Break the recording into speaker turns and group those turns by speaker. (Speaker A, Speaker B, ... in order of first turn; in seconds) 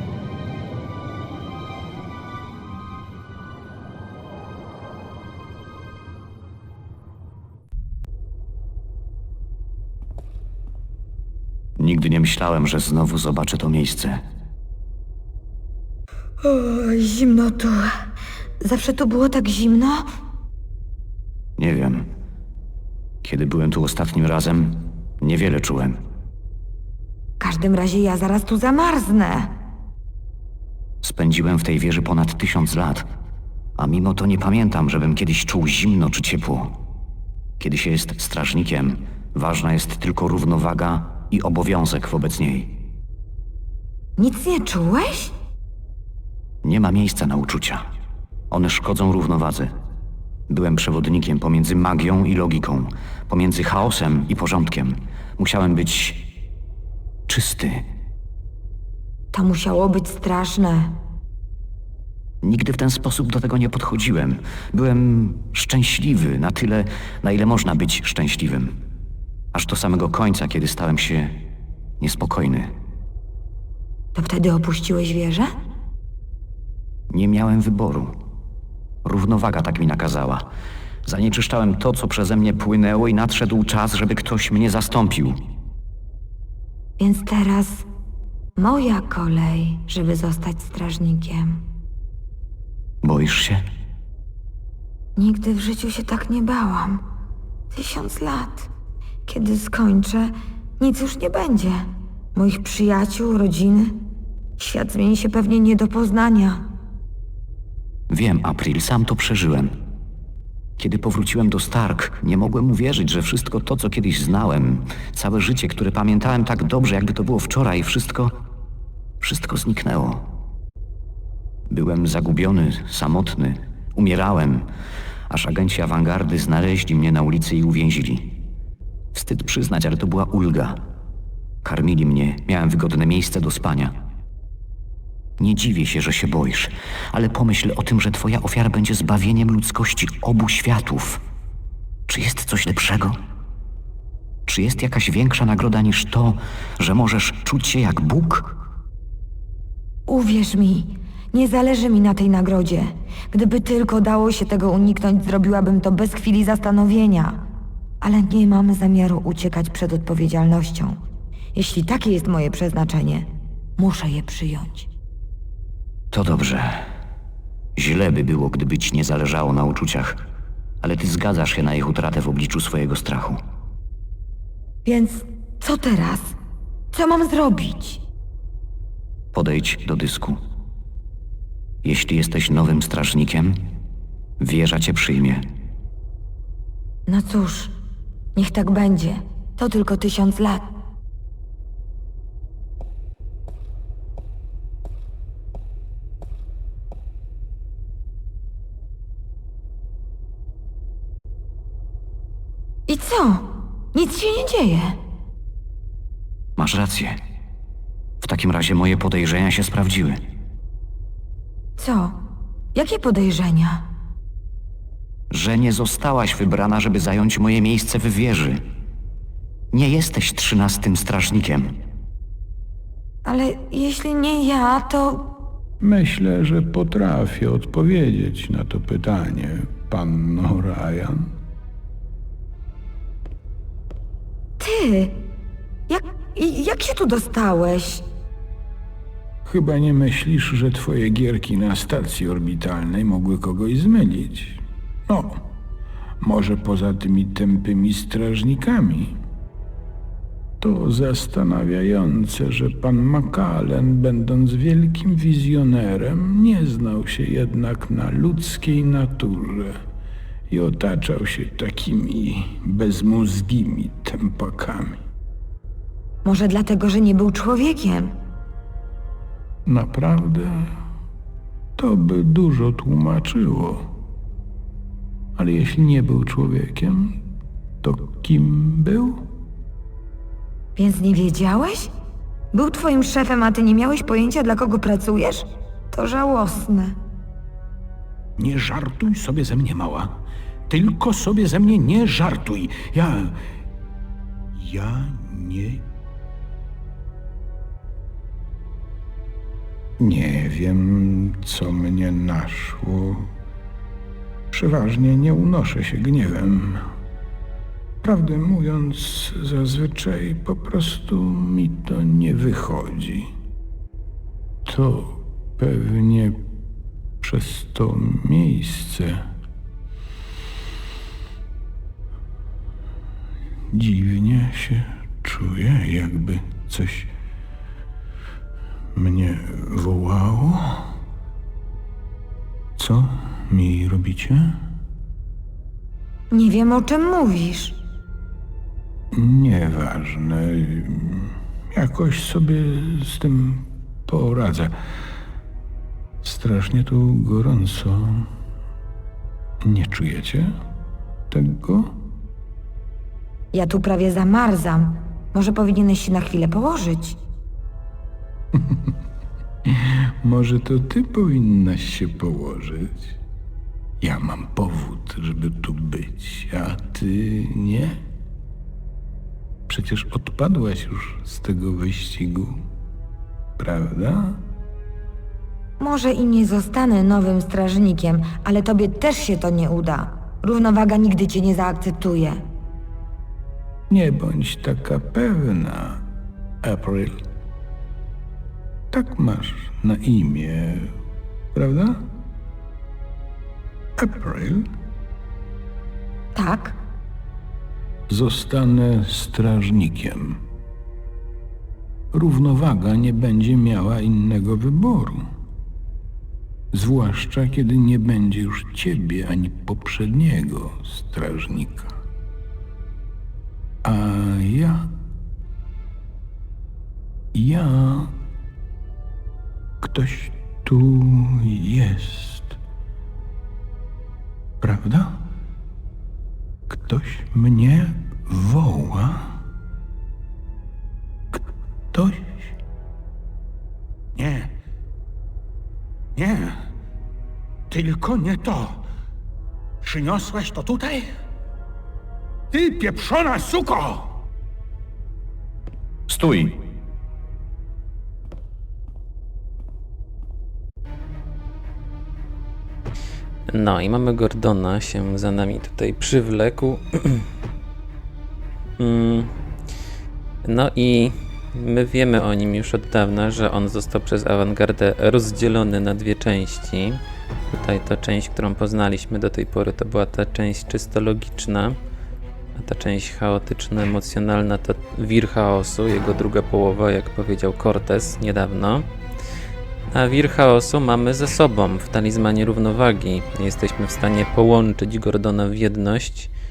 Speaker A: 11.8-14.2, 21.6-22.1, 23.2-26.0, 31.0-33.0, 33.8-36.8, 37.6-42.8, 46.6-47.9, 48.5-49.7, 50.5-56.3, 57.3-57.8, 62.4-68.8, 69.5-71.4, 72.0-72.7, 77.1-78.2, 79.0-80.5, 81.0-85.5, 93.0-93.6, 108.1-109.8, 110.8-118.3, 119.2-120.3, 121.7-124.7, 125.3-128.4, 129.1-130.8, 131.6-133.9, 135.4-141.2, 142.1-143.2, 144.5-148.6, 166.1-166.9, 167.8-170.2, 170.8-173.4, 179.3-180.4, 181.8-183.6, 184.4-185.4, 206.6-207.2, 208.2-210.2, 215.3-218.6, 219.7-221.8, 446.1-446.6
Speaker B: 16.4-17.9, 18.6-20.1, 27.4-29.5, 44.2-45.3, 59.3-61.0, 74.1-75.5, 87.0-87.8, 88.6-91.6, 95.2-97.0, 97.7-98.7, 99.2-104.0, 104.6-106.6, 150.1-157.4, 158.0-161.0, 161.5-164.9, 174.8-176.3, 176.9-178.0, 187.1-187.7, 188.3-190.7, 202.9-205.0, 211.8-212.2, 212.7-213.8, 223.2-225.3, 234.6-235.2, 235.9-238.0, 266.2-268.1, 280.8-281.9, 282.5-287.0, 336.3-337.8, 353.5-357.2, 375.8-382.4, 396.3-396.8
Speaker C: 225.8-231.3, 239.4-245.5, 246.2-249.2, 250.6-259.8, 260.5-265.0, 269.6-270.7, 271.8-273.9, 275.4-277.2, 277.8-279.2, 288.4-293.4, 294.5-295.8, 300.0-303.3, 304.5-306.8, 308.0-313.3, 314.6-316.4, 317.2-319.2, 323.7-327.1, 328.9-330.9, 332.8-334.6, 339.1-344.7, 346.2-348.3, 349.6-350.5, 351.3-352.0, 358.5-358.9, 359.6-363.2, 364.0-368.0, 369.7-372.6, 373.6-374.4, 383.9-386.0, 386.6-387.2, 388.9-390.9, 391.5-392.0, 394.0-394.6, 398.1-400.4, 402.1-405.2, 406.7-412.0, 413.8-414.9, 417.3-418.1, 419.8-422.6, 424.6-425.2, 426.7-429.4, 431.9-432.5, 434.1-434.5, 436.1-436.7, 437.7-438.8, 439.8-441.1, 442.5-444.2
Speaker D: 453.5-457.3, 458.8-459.3, 460.4-471.8, 472.5-478.9, 479.9-486.3